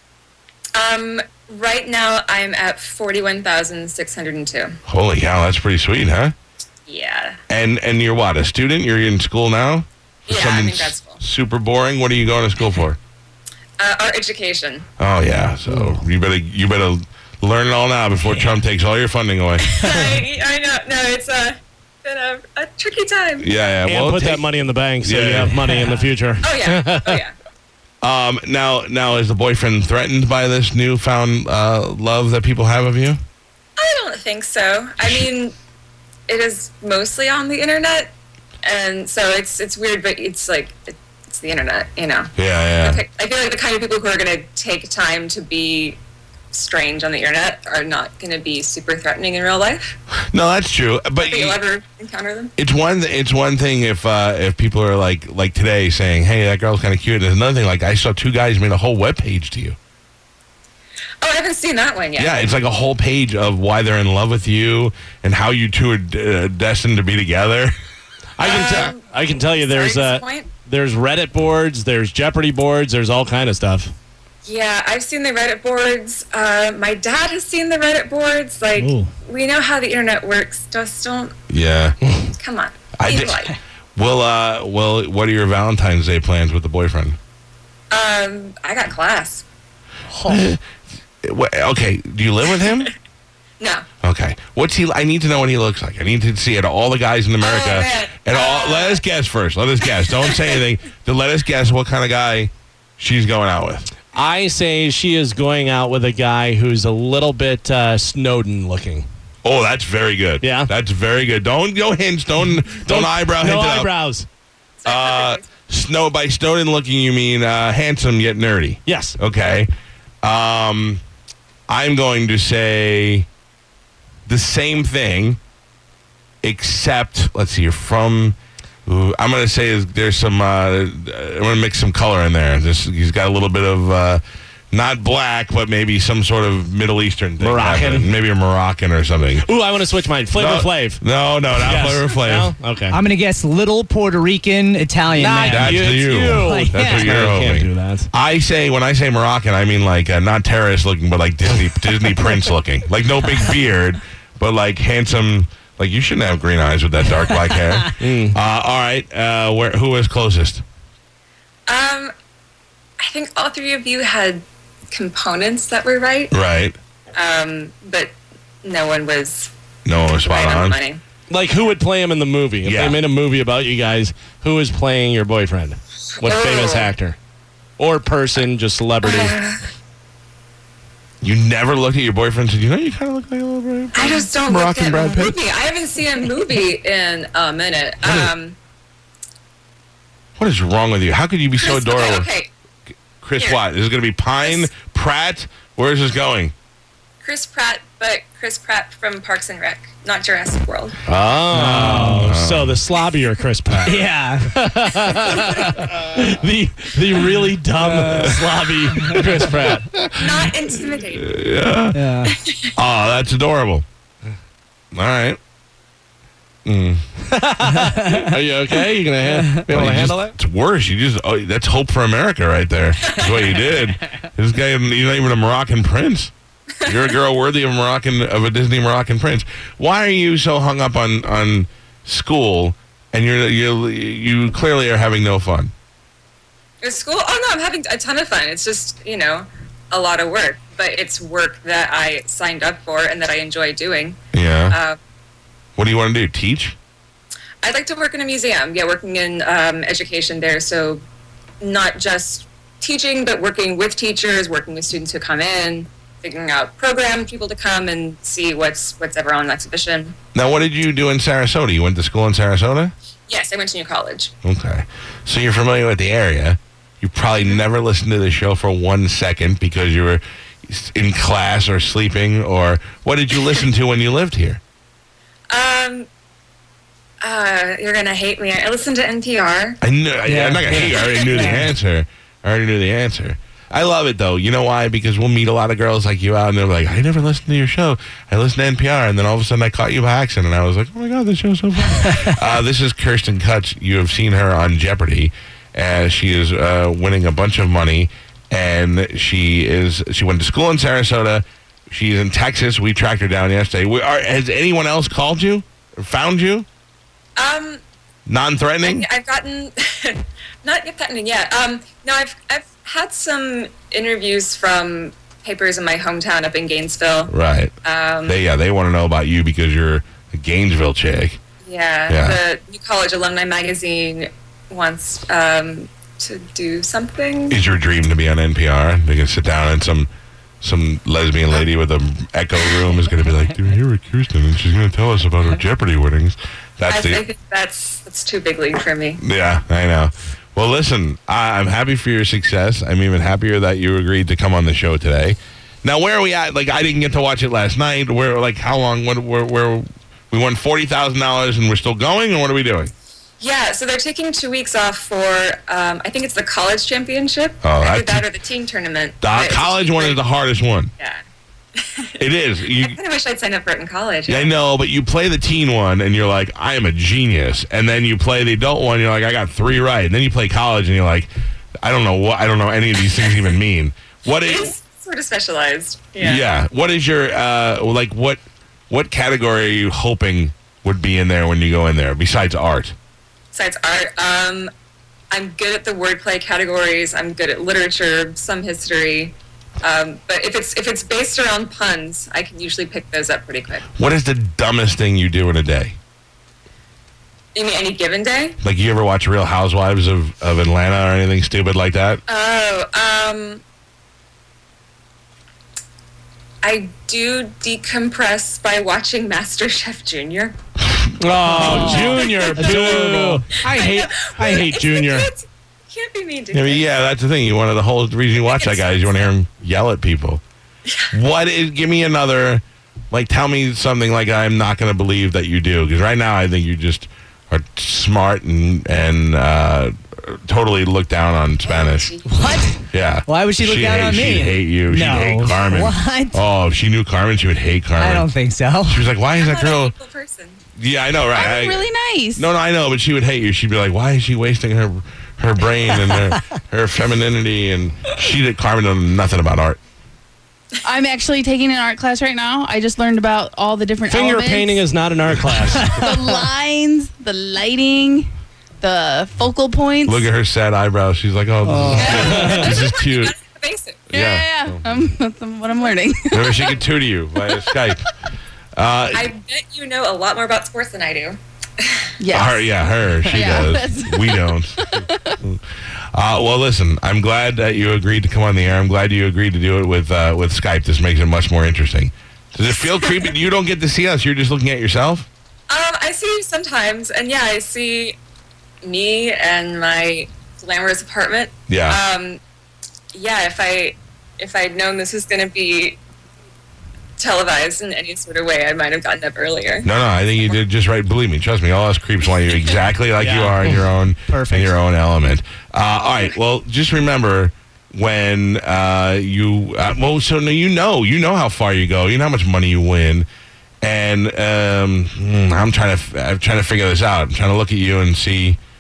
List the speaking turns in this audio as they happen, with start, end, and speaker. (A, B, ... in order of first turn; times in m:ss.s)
0:00.7-0:04.8 A
0:04.9-0:06.3 B
0:06.9-0:07.4 A
0:07.5-0:13.0 B
0:10.3-0:11.2 A
0:13.8-0:14.9 A
0:15.0-0:19.7 B
0:15.7-0:16.0 C
0:19.6-0:23.6 A
0:23.4-0:24.4 B
0:23.8-0:27.2 C
0:25.0-0:25.6 B
0:26.4-0:27.3 A
0:28.0-0:33.2 B
0:33.8-0:35.6 A
0:36.3-0:38.1 A
0:38.6-0:46.0 A
0:42.4-0:43.0 B
0:46.5-0:50.0 A
0:50.3-0:51.6 B
0:51.2-0:52.5 A
0:52.6-0:59.8 B
1:01.2-1:02.5 A
1:02.2-1:07.8 B
1:08.4-1:13.9 C
1:08.4-1:09.0 A
1:09.6-1:10.5 A
1:14.4-1:21.4 A
1:18.8-1:19.1 D
1:21.5-1:22.0 B
1:22.4-1:23.6 A
1:23.0-1:23.4 B
1:24.0-1:27.2 B
1:27.9-1:29.4 A
1:30.1-1:30.4 D
1:30.2-1:30.6 B
1:31.2-1:32.9 B
1:32.6-1:32.9 A
1:33.6-1:33.8 A
1:34.0-1:43.9 B
1:37.4-1:39.0 A
1:39.8-1:40.6 A
1:44.1-1:49.1 C
1:49.4-1:53.9 B
1:50.4-1:50.7 C
1:52.8-1:54.3 C
1:54.8-1:55.5 A
1:54.9-1:59.7 B
1:58.9-1:59.2 C
2:00.2-2:01.0 B
2:01.7-2:03.3 B
2:04.3-2:05.4 B
2:06.4-2:14.2 B
2:14.7-2:19.5 B
2:17.4-2:18.1 C
2:19.4-2:21.0 C
2:20.3-2:22.5 B
2:21.5-2:23.0 C
2:22.9-2:27.2 D
2:25.1-2:28.1 C
2:25.4-2:40.6 B
2:37.3-2:37.6 D
2:38.0-2:38.4 C
2:41.7-2:42.1 A
2:43.0-2:46.3 A
2:46.3-2:46.8 B
2:47.2-2:49.5 A
2:49.9-2:50.8 B
2:50.1-2:51.0 A
2:51.3-2:57.2 C
2:52.6-2:53.0 B
2:56.2-2:56.9 A
2:57.8-2:59.4 C
2:59.0-2:59.6 A
3:01.2-3:05.4 B
3:04.0-3:08.6 A
3:08.0-3:08.3 B
3:10.4-3:12.3 B
3:11.6-3:12.5 A
3:13.2-3:16.5 B
3:14.4-3:14.7 A
3:17.2-3:21.0 A
3:21.1-3:29.9 C
3:21.5-3:22.3 D
3:22.0-3:22.8 B
3:23.8-3:24.6 D
3:27.7-3:29.3 D
3:29.2-3:32.0 B
3:30.2-3:31.3 A
3:31.9-3:32.3 D
3:32.3-3:32.7 A
3:32.8-3:33.8 B
3:34.9-3:35.4 B
3:36.6-3:37.0 B
3:37.3-3:40.4 C
3:37.8-3:38.2 D
3:39.7-3:46.3 B
3:46.8-3:55.7 B
3:56.8-4:04.2 A
4:04.3-4:04.8 B
4:04.7-4:05.0 A
4:05.8-4:06.8 B
4:07.6-4:11.0 A
4:11.6-4:20.2 A
4:20.4-4:22.9 B
4:23.3-4:24.3 A
4:24.4-4:34.6 B
4:35.5-4:36.1 A
4:37.2-4:39.8 A
4:39.8-5:06.7 B
4:40.3-4:41.7 D
4:40.8-4:41.5 A
5:07.4-5:07.8 A
5:08.3-5:09.1 B
5:08.8-5:17.3 A
5:17.3-5:17.7 B
5:17.8-5:18.4 A
5:18.3-5:21.4 B
5:21.6-5:27.6 A
5:22.1-5:22.4 B
5:27.5-5:30.1 B
5:30.6-5:37.2 B
5:36.9-5:39.2 A
5:39.2-5:52.9 B
5:53.4-6:00.3 A
5:57.6-5:58.3 B
5:59.2-6:00.9 B
6:01.8-6:04.5 A
6:02.2-6:03.0 B
6:04.3-6:11.3 B
6:11.8-6:14.7 B
6:14.4-6:16.5 A
6:16.2-6:23.0 B
6:23.5-6:24.7 A
6:25.3-6:33.9 A
6:34.0-6:36.0 B
6:37.6-6:38.6 A
6:38.6-6:42.2 B
6:42.3-6:43.6 A
6:46.6-6:50.6 A
6:51.2-6:55.3 C
6:51.4-6:53.4 D
6:51.6-6:52.1 B
6:51.6-6:53.0 A
6:52.7-6:53.3 B
6:53.6-6:57.0 A
6:56.5-7:00.4 B
6:58.4-6:59.3 A
7:01.1-7:12.1 B
7:11.6-7:12.7 A
7:12.2-7:16.4 D
7:12.9-7:18.3 B
7:18.0-7:19.1 D
7:18.9-7:19.9 B
7:19.3-7:20.6 A
7:20.8-7:29.8 B
7:21.3-7:22.5 E
7:30.8-7:34.8 E
7:34.1-7:36.4 C
7:35.7-7:40.3 E
7:40.0-7:43.3 B
7:41.6-7:42.7 D
7:41.9-7:42.2 E
7:42.0-7:44.1 A
7:42.1-7:42.7 C
7:44.1-7:45.2 B
7:44.1-7:46.7 E
7:46.3-7:48.1 B
7:48.8-7:49.3 B
7:49.1-7:52.1 A
7:52.2-7:55.4 E
7:52.3-7:55.6 B
7:56.1-8:05.3 B
8:05.7-8:08.2 A
8:08.8-8:12.4 A
8:11.7-8:12.0 B
8:13.1-8:16.0 A
8:17.2-8:19.9 A
8:19.8-8:33.3 B
8:23.2-8:24.8 D
8:33.8-8:38.6 B